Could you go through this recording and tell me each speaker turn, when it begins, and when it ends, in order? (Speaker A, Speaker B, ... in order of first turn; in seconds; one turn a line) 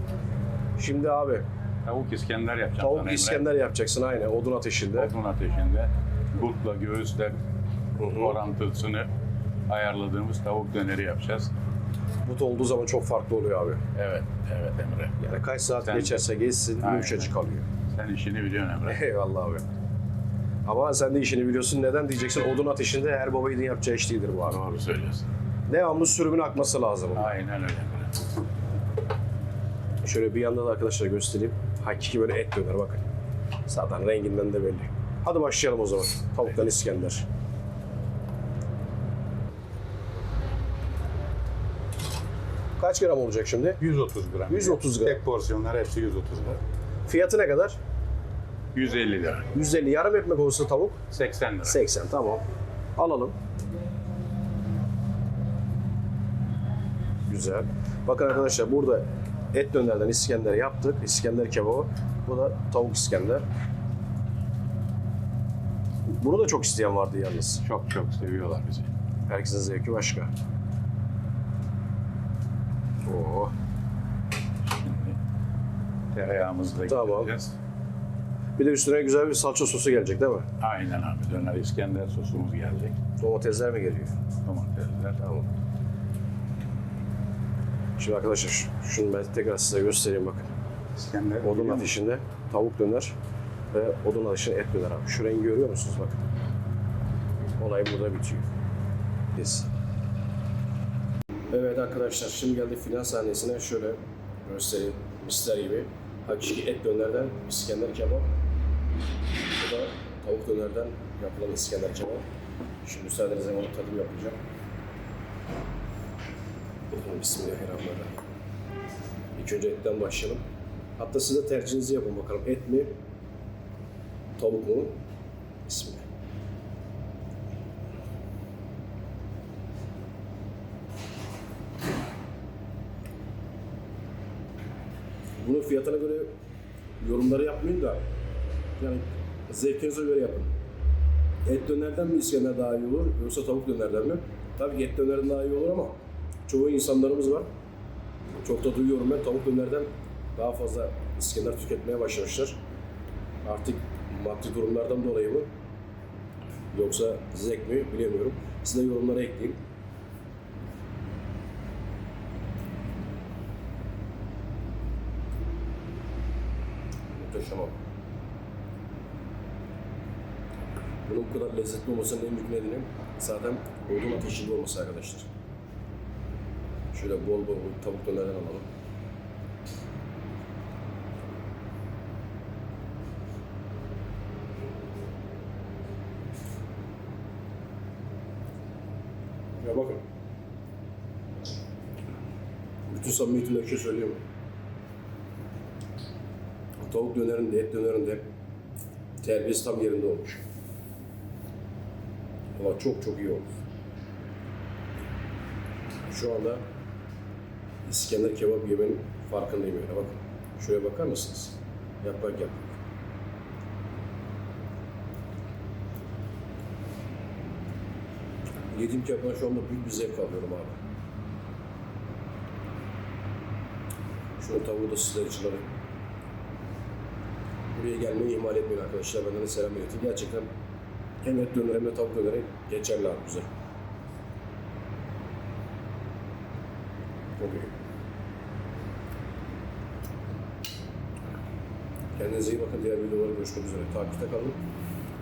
Speaker A: 0.8-1.4
Speaker B: 1.8-3.5
Speaker A: 2.8-5.1
Speaker B: 4.9-7.4
Speaker A: 8.0-8.4
Speaker B: 8.0-9.1
Speaker B: 9.7-11.5
Speaker A: 12.2-13.8
Speaker B: 13.9-15.2
Speaker A: 15.2-17.6
Speaker B: 15.8-16.2
Speaker B: 16.8-17.3
Speaker B: 17.9-19.0
Speaker A: 18.9-19.6
Speaker A: 20.6-24.6
Speaker B: 24.4-25.3
Speaker A: 25.7-27.3
Speaker B: 27.1-28.2
Speaker A: 30.0-33.0
Speaker A: 33.7-37.2
Speaker A: 42.8-43.8
Speaker B: 43.8-46.6
Speaker A: 44.5-45.2
Speaker A: 47.1-47.8
Speaker B: 48.7-49.5
Speaker A: 49.5-51.0
Speaker B: 51.1-51.8
Speaker A: 51.6-52.4
Speaker A: 53.0-53.3
Speaker A: 57.3-63.4
Speaker A: 66.1-67.6
Speaker B: 67.6-68.9
Speaker A: 69.3-70.3
Speaker A: 73.0-73.5
Speaker B: 74.6-75.2
Speaker B: 76.1-77.5
Speaker A: 76.9-77.3
Speaker A: 78.6-80.5
Speaker B: 80.6-82.9
Speaker A: 83.2-84.2
Speaker B: 84.4-85.2
Speaker A: 85.2-85.5
Speaker A: 88.0-90.5
Speaker B: 90.9-91.9
Speaker A: 91.4-93.1
Speaker A: 93.7-96.2
Speaker A: 97.6-98.5
Speaker A: 99.3-99.7
Speaker A: 101.5-108.3
Speaker A: 109.6-112.2
Speaker A: 112.8-114.4
Speaker A: 116.9-118.3
Speaker A: 119.3-120.4
Speaker A: 121.0-122.9
Speaker A: 124.4-124.9
Speaker A: 125.6-126.0
Speaker A: 135.4-136.3
Speaker A: 137.0-138.0
Speaker A: 138.8-140.5
Speaker A: 141.4-145.9
Speaker A: 146.5-147.4
Speaker A: 148.4-152.6
Speaker A: 153.4-155.5
Speaker A: 156.7-159.6
Speaker A: 167.2-167.8
Speaker A: 171.1-175.3
Speaker A: 176.9-178.7
Speaker A: 189.6-190.0
Speaker A: 192.9-194.2
Speaker A: 196.8-198.2
Speaker A: 199.2-200.4
Speaker A: 202.6-203.5
Speaker A: 206.1-206.6
Speaker A: 207.8-212.8
Speaker A: 218.7-220.8
Speaker A: 224.4-225.7
Speaker A: 227.7-230.5
Speaker A: 231.2-233.4
Speaker A: 237.4-237.7
Speaker A: 242.2-244.6